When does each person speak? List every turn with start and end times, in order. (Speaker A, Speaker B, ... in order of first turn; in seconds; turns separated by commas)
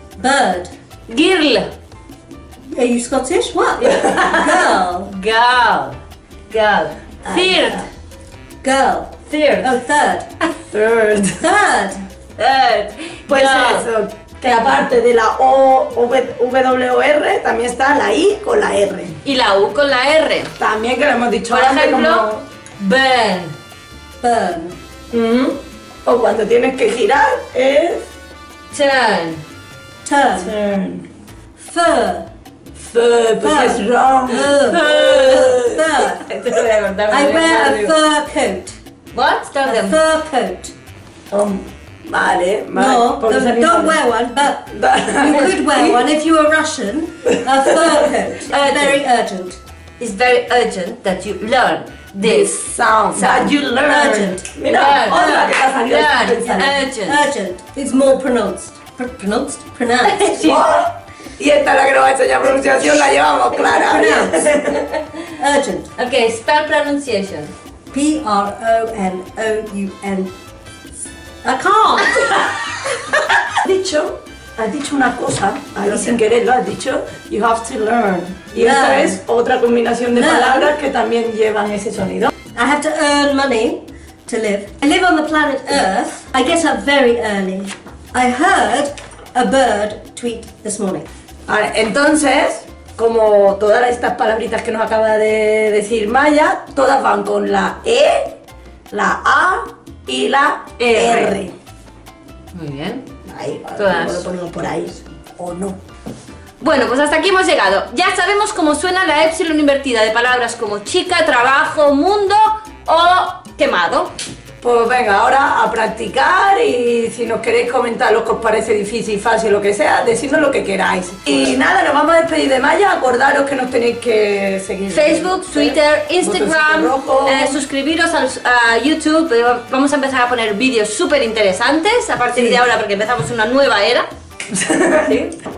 Speaker A: 0.2-0.7, Speaker B: 1.1-1.7, Speaker A: 2.7-5.1, Speaker B: 4.2-6.0, Speaker B: 6.5-7.8, Speaker C: 7.2-7.8, Speaker A: 8.6-10.3, Speaker B: 9.3-9.8, Speaker C: 10.7-11.4, Speaker A: 11.4-12.0, Speaker B: 12.4-13.9, Speaker C: 13.3-19.2, Speaker B: 19.2-20.5, Speaker C: 20.6-22.4, Speaker B: 21.5-22.2, Speaker B: 22.8-23.5, Speaker A: 24.2-24.7, Speaker C: 25.1-28.0, Speaker B: 28.7-29.4, Speaker A: 30.0-30.5, Speaker C: 30.4-31.1, Speaker A: 31.6-32.3, Speaker C: 32.8-35.8, Speaker A: 33.4-36.2, Speaker B: 34.4-38.0, Speaker A: 37.1-38.8, Speaker B: 39.1-40.0, Speaker A: 39.6-40.7, Speaker C: 41.3-44.0, Speaker A: 42.7-49.6, Speaker C: 44.7-46.0, Speaker B: 48.4-49.0, Speaker B: 50.0-52.6, Speaker C: 52.2-56.8, Speaker B: 53.1-53.5, Speaker A: 53.8-55.6, Speaker B: 54.7-57.2, Speaker A: 56.5-60.4, Speaker B: 60.0-60.6, Speaker C: 60.4-64.9, Speaker A: 63.7-64.5, Speaker A: 65.4-65.9, Speaker B: 66.0-67.5, Speaker A: 67.9-70.3, Speaker A: 71.4-72.5, Speaker C: 73.5-82.3, Speaker A: 78.5-79.2, Speaker A: 80.1-80.7, Speaker A: 82.5-91.1, Speaker C: 91.5-98.3, Speaker C: 98.9-101.5, Speaker B: 100.8-101.4, Speaker B: 102.5-103.0, Speaker C: 103.2-105.8, Speaker B: 103.8-104.3, Speaker B: 106.6-114.1, Speaker C: 114.6-127.6, Speaker B: 124.9-134.1, Speaker C: 134.5-135.2, Speaker B: 135.0-135.3